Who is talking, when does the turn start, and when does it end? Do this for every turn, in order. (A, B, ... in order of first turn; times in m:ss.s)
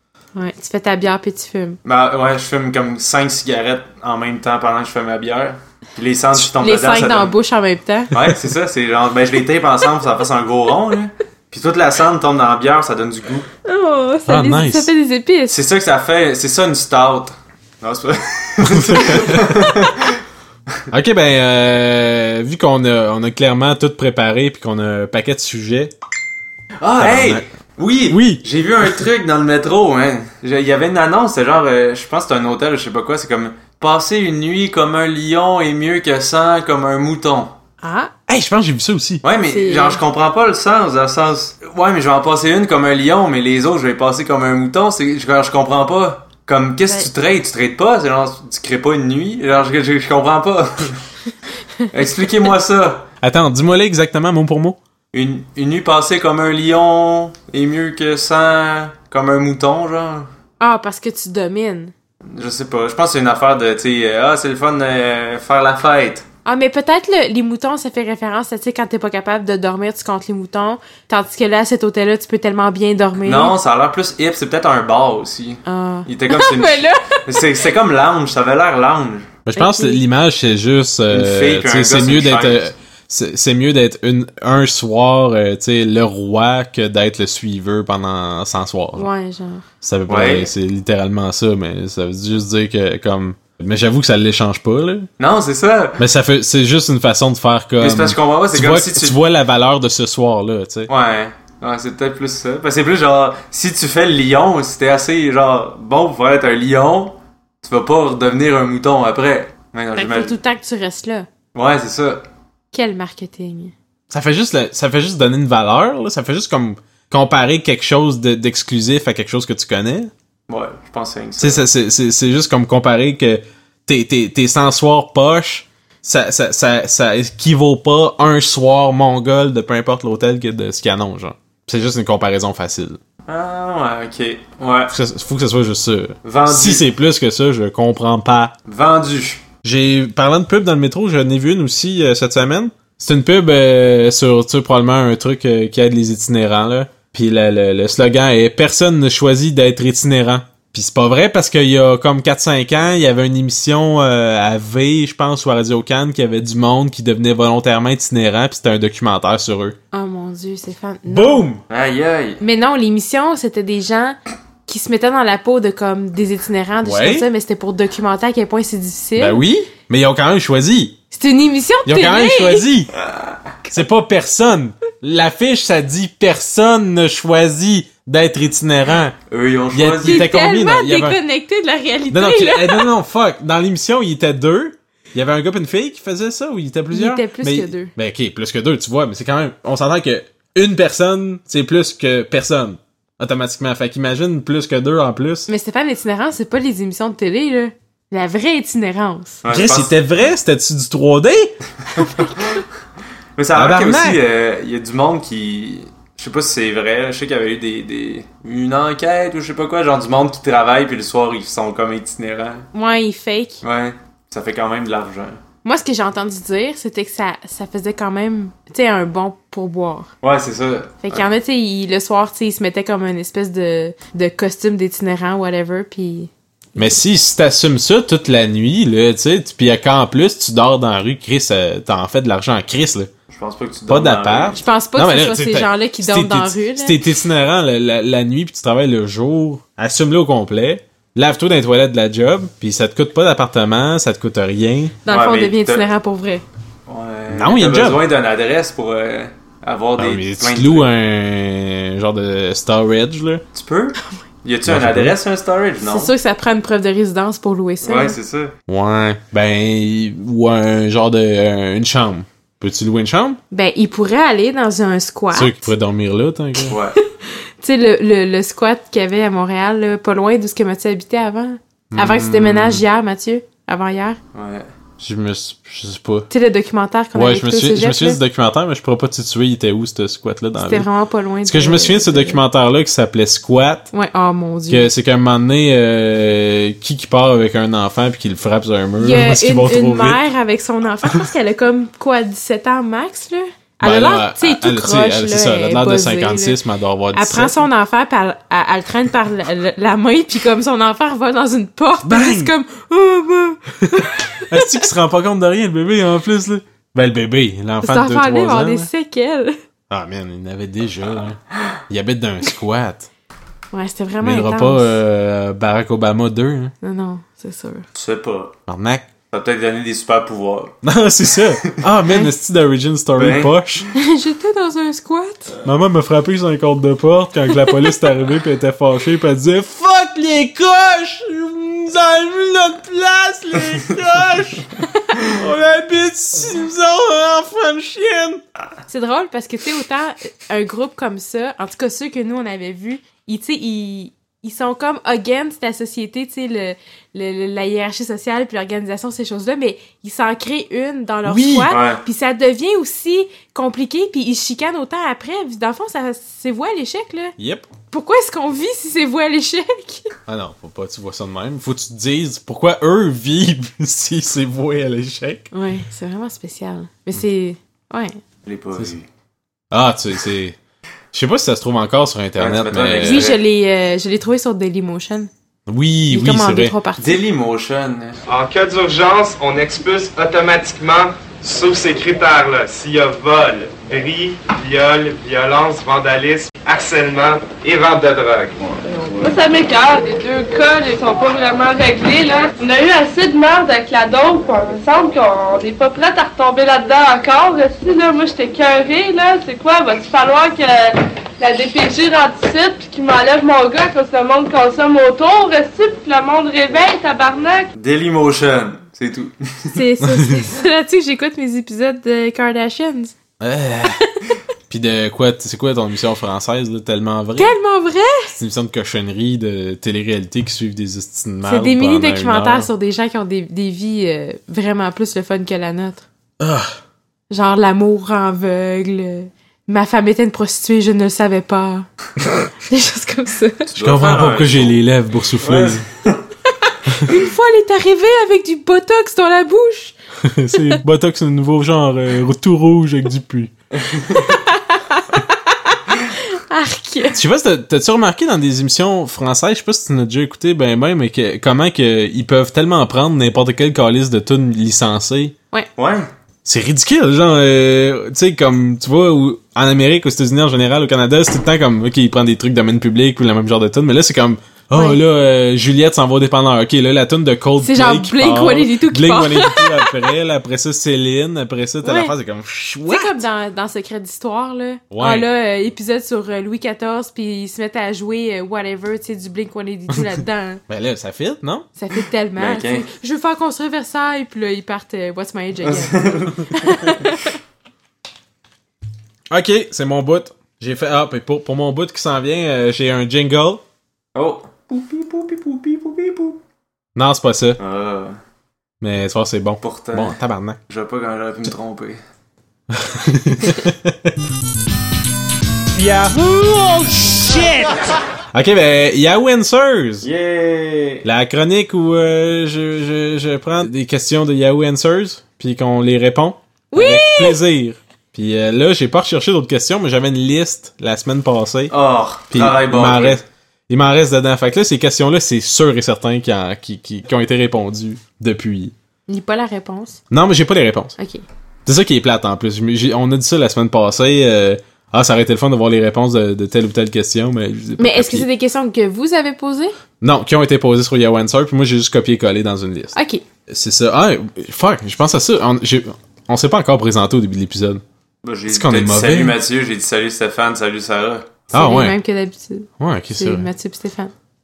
0:00.4-0:01.8 A
0:01.8-0:07.3 B
0:06.5-0:08.1 A
0:08.1-0:13.5 B
0:13.6-0:15.6 A
0:14.3-0:14.9 C
0:15.5-0:20.2 B
0:18.6-0:19.8 C
0:20.9-0:25.9 C
0:26.8-0:37.6 B
0:27.0-0:27.4 C
0:28.1-0:28.4 C
0:37.8-0:38.1 A
0:38.3-0:39.2 C
0:39.2-0:51.0 B
0:39.4-0:40.0 A
0:51.9-0:53.1 B
0:53.2-0:54.8 C
0:55.1-1:00.3 B
1:00.6-1:01.9 A
1:02.3-1:06.3 B
1:06.4-1:13.6 A
1:13.2-1:19.3 B
1:15.7-1:17.5 A
1:19.5-1:29.1 C
1:19.6-1:20.0 A
1:21.1-1:22.7 B
1:28.9-1:29.7 A
1:29.8-1:35.1 C
1:30.1-1:30.5 B
1:35.2-1:36.0 B
1:36.0-1:40.9 C
1:37.8-1:39.2 B
1:40.9-1:50.4 B
1:50.0-1:51.3 A
1:51.5-1:52.2 B
1:52.7-1:53.7 A
1:54.1-2:00.1 C
2:00.5-2:01.6 B
2:01.4-2:13.0 C
2:13.3-2:14.9 B
2:14.9-2:18.5 C
2:16.2-2:16.8 B
2:18.7-2:19.4 B
2:19.6-2:39.8 C
2:39.9-2:41.5 A
2:41.1-2:41.6 C
2:41.7-2:42.4 B
2:42.4-2:49.4 A
2:46.8-2:47.3 C
2:49.2-2:51.0 C
2:51.1-2:52.6 A
2:51.8-2:52.9 C
2:53.7-2:59.2 C
2:59.3-3:00.3 B
2:59.7-3:01.2 C
3:00.0-3:02.9 A
3:02.1-3:15.5 C
3:06.9-3:07.9 A
3:15.5-3:19.4 A
3:19.4-3:19.9 B
3:19.5-3:21.6 C
3:22.0-3:22.6 A
3:23.4-3:32.7 B
3:23.5-3:24.2 C
3:32.7-3:33.6 A
3:33.6-3:35.4 B
3:35.6-3:40.1 A
3:40.2-3:41.2 B
3:41.0-3:47.0 A
3:46.8-3:53.1 C
3:53.3-3:54.6 B
3:53.9-4:05.0 C
3:54.6-3:57.0 A
4:05.0-4:06.4 A
4:05.1-4:05.9 B
4:06.9-4:10.9 B
4:07.3-4:08.0 C
4:10.0-4:13.4 C
4:13.5-4:16.1 B
4:14.6-4:15.2 C
4:15.8-4:18.2 A
4:17.8-4:18.5 B
4:18.7-4:23.4 C
4:23.5-4:25.7 A
4:25.3-4:26.8 C
4:26.7-4:27.0 B
4:27.6-4:34.2 A
4:31.9-4:32.8 C
4:34.3-4:34.7 B
4:35.0-4:36.3 C
4:36.3-4:38.2 A
4:37.1-4:40.9 C
4:40.6-4:42.4 A
4:41.4-4:43.9 C
4:43.9-4:44.9 A
4:44.7-4:50.2 C
4:49.0-4:56.6 A
4:53.8-4:57.6 C
4:57.1-5:04.8 A
5:02.0-5:02.5 C
5:03.9-5:08.9 C
5:07.8-5:09.6 A
5:09.9-5:13.1 C
5:13.7-5:15.0 A
5:14.2-5:16.7 C
5:16.8-5:17.8 A
5:17.9-5:18.6 B
5:18.7-5:19.1 C
5:19.3-5:20.8 B
5:20.8-5:23.9 C
5:21.4-5:21.8 B
5:23.2-5:23.5 B
5:24.0-5:25.6 A
5:25.6-5:38.4 C
5:38.9-5:57.4 A
5:51.2-5:51.7 C
5:51.7-5:52.0 B
5:57.4-5:57.7 C
5:57.9-6:00.1 A
6:00.3-6:05.5 C
6:05.5-6:08.2 A
6:08.5-6:09.1 B
6:09.7-6:10.6 C
6:11.1-6:13.3 C
6:12.4-6:13.4 B
6:13.0-6:15.3 A
6:15.7-6:16.8 C
6:16.1-6:17.2 A
6:17.0-6:18.2 B
6:18.3-6:29.4 D
6:29.2-6:47.7 E
6:47.8-6:49.8 B
6:49.7-6:53.1 A
6:50.0-6:50.5 C
6:53.4-6:54.0 C
6:54.0-6:54.4 A
6:54.7-6:57.6 C
6:57.4-6:58.4 A
6:58.4-7:02.7 C
7:01.4-7:06.1 A
7:06.4-7:06.8 C
7:07.3-7:11.9 A
7:12.6-7:13.7 A
7:13.7-7:15.8 C
7:13.7-7:14.8 B
7:15.4-7:16.2 B
7:17.0-7:20.0 A
7:20.2-7:23.5 C
7:20.5-7:20.8 A
7:23.8-7:24.2 B
7:24.1-7:27.2 A
7:27.1-7:35.4 C
7:35.8-7:36.1 B
7:36.4-7:53.2 C
7:47.6-7:50.0 A
7:51.8-7:52.1 A
7:52.9-8:00.6 A
7:54.9-7:55.3 C
8:00.7-8:01.7 C
8:01.8-8:07.4 A
8:02.4-8:02.8 B
8:05.6-8:06.9 B
8:09.3-8:13.6 C
8:14.2-8:16.4 B
8:17.0-8:17.6 C
8:17.6-8:18.2 B
8:18.8-8:20.6 C
8:19.6-8:20.2 B
8:20.7-8:22.0 B
8:22.7-8:24.1 C
8:25.7-8:30.1 C
8:30.0-8:31.0 B
8:31.0-8:41.7 C
8:36.7-8:37.4 A
8:41.7-8:43.2 B
8:42.3-8:48.7 C
8:49.1-8:50.0 A
8:50.1-8:51.0 C
8:51.0-8:51.2 A
8:51.7-8:58.3 C
8:57.8-8:59.7 A
9:00.0-9:02.9 C
9:03.0-9:03.2 A
9:03.5-9:07.8 C
9:08.2-9:11.4 B
9:08.5-9:09.4 C
9:11.5-9:12.0 C
9:11.5-9:14.1 A
9:12.8-9:13.5 C